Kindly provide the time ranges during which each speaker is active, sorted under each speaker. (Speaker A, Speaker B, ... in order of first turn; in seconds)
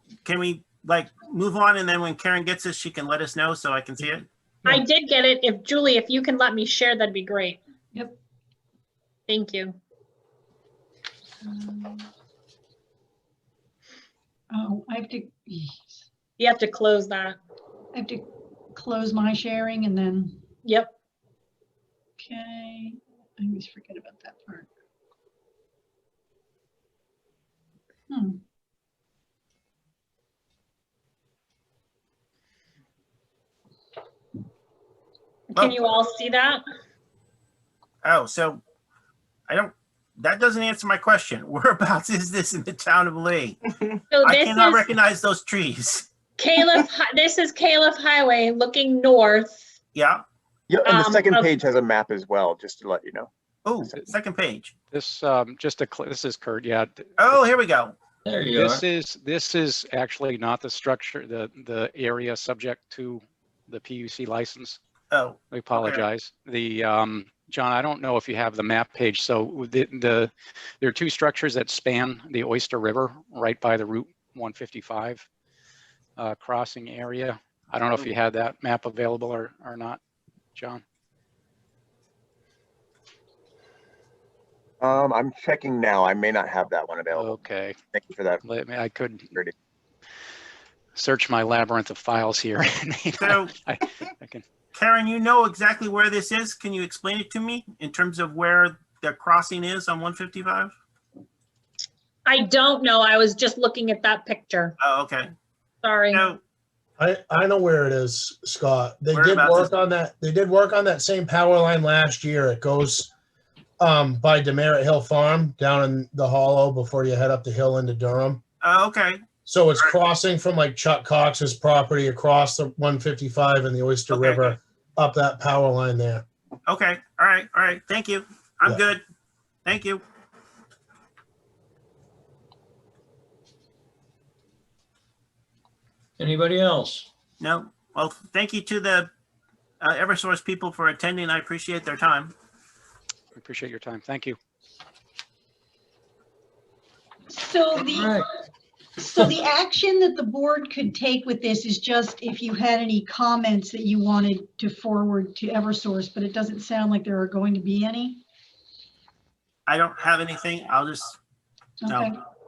Speaker A: 0.2-4.3, 38.0-38.6, 39.5-46.1, 50.0-50.2, 53.6-54.7, 57.2-58.0, 65.1-66.0, 93.2-93.5, 94.7-100.7, 104.8-105.3, 106.1-106.4, 109.1-109.7, 118.6-119.2, 124.1-124.6, 126.7-129.0, 129.7-130.0, 137.4-139.1, 139.8-142.3, 159.7-161.2, 161.9-162.1
Speaker B: 4.7-7.6, 9.3-9.8, 16.4-17.4, 20.6-20.9, 35.6-36.6, 44.1-44.9, 46.4-49.7, 50.9-51.5, 102.3-104.8, 105.8-106.2
Speaker C: 11.4-12.1, 14.5-16.0, 17.9-20.4, 22.2-24.7, 28.1-28.4, 147.3-148.2, 149.0-158.2, 161.8-162.2
Speaker D: 50.7-53.3, 84.8-87.4, 87.9-88.4
Speaker E: 54.9-57.4, 58.5-64.8, 65.5-75.3, 76.2-80.0, 80.5-80.8, 87.1-87.8, 88.5-89.3, 91.0-94.4, 143.4-144.4
Speaker F: 58.2-58.9, 136.2-137.1, 147.8-148.3, 149.2-149.4
Speaker G: 107.0-113.1, 113.8-118.4, 119.5-126.2